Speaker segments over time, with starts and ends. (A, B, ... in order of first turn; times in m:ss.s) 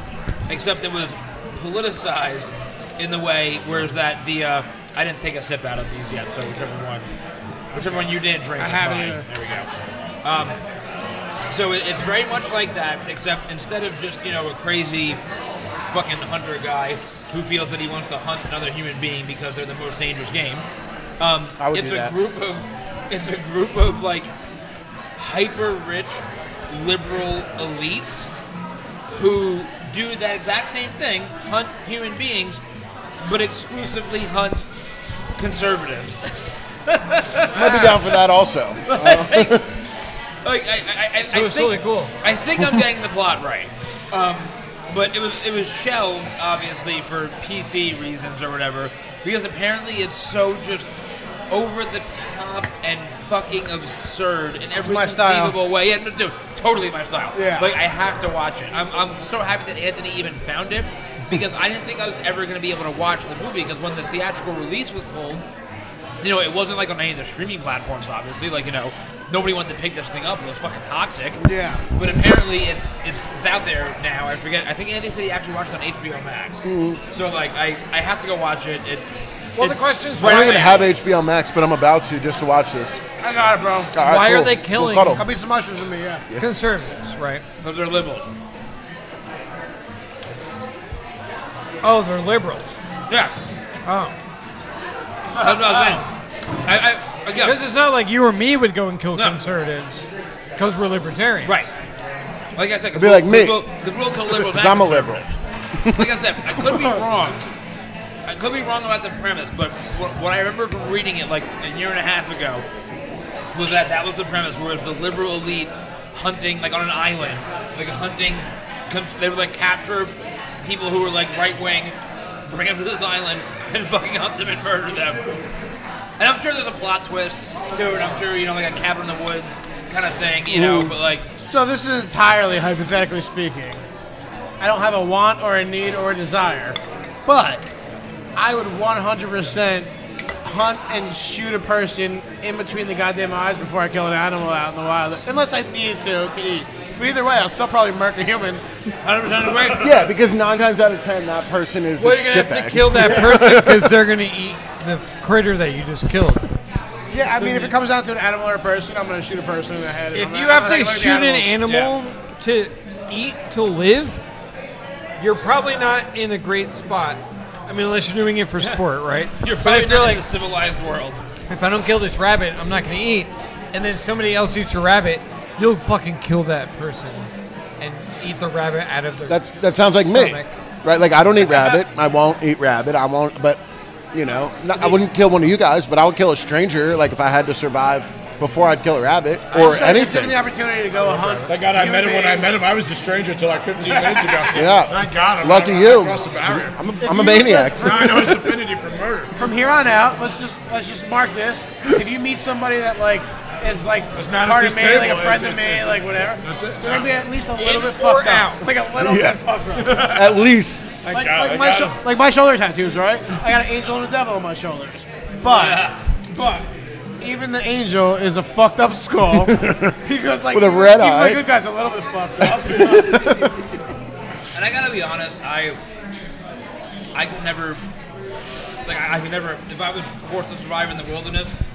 0:00.5-0:07.1 A
0:07.7-0:09.7 A
0:08.6-0:09.2 B
0:10.2-0:10.6 A
0:11.5-0:15.2 A
0:15.9-0:20.6 A
0:21.2-0:24.3 A
0:21.6-0:22.1 C
0:25.2-0:28.3 A
0:29.1-0:32.6 A
0:33.2-0:34.6 A
0:35.4-0:36.3 A
0:36.9-0:38.0 A
0:37.5-0:39.6 C
0:37.6-0:37.8 B
0:38.9-0:39.6 A
0:40.4-0:50.9 A
0:41.3-0:42.1 D
0:51.5-1:05.4 A
0:54.8-0:55.5 B
0:57.3-0:57.7 B
1:06.2-1:11.4 A
1:11.4-1:11.8 B
1:11.9-1:19.0 A
1:16.6-1:17.0 C
1:19.6-1:20.8 D
1:19.6-1:20.9 A
1:20.2-1:23.0 C
1:23.2-1:23.9 B
1:23.9-1:25.2 C
1:24.0-1:25.2 D
1:25.2-1:26.2 B
1:26.4-1:27.4 D
1:27.6-1:28.3 A
1:31.8-1:32.8 D
1:33.1-1:33.3 A
1:33.8-1:34.1 D
1:35.3-1:36.0 B
1:35.4-1:36.0 A
1:36.6-1:37.6 A
1:37.4-1:40.0 D
1:40.6-1:41.5 D
1:42.6-1:45.4 A
1:42.9-1:43.6 C
1:44.3-1:45.2 C
1:45.8-1:46.8 C
1:45.9-1:47.4 A
1:48.2-1:52.6 A
1:53.5-2:01.9 A
2:02.5-2:05.2 A
2:06.2-2:11.2 A
2:10.5-2:10.9 C
2:11.4-2:13.8 B
2:14.6-2:17.6 B
2:18.4-2:19.9 B
2:20.4-2:28.6 B
2:29.0-2:30.0 A
2:29.8-2:34.0 C
2:32.0-2:36.4 D
2:37.1-2:41.5 B
2:37.4-2:37.7 D
2:40.1-2:44.2 D
2:41.6-2:41.9 A
2:45.2-2:50.2 D
2:49.4-2:51.2 A
2:51.5-2:57.3 D
2:57.8-3:00.6 D
2:59.3-3:03.6 C
3:04.1-3:10.4 C
3:04.7-3:05.0 B
3:09.5-3:12.6 B
3:11.0-3:11.5 D
3:11.4-3:16.8 E
3:13.8-3:14.6 B
3:14.5-3:18.4 C
3:17.0-3:18.4 B
3:17.6-3:19.3 E
3:19.3-3:30.1 B
3:24.1-3:27.2 E
3:27.6-3:28.6 D
3:29.0-3:30.9 C
3:29.8-3:30.4 E
3:31.0-3:32.0 E
3:31.1-3:36.6 B
3:35.4-3:36.4 A
3:37.2-3:39.5 B
3:39.3-3:40.0 C
3:40.0-3:43.5 B
3:40.5-3:41.4 C
3:42.4-3:43.5 C
3:44.5-3:45.8 A
3:47.1-3:47.8 A
3:48.8-3:51.5 A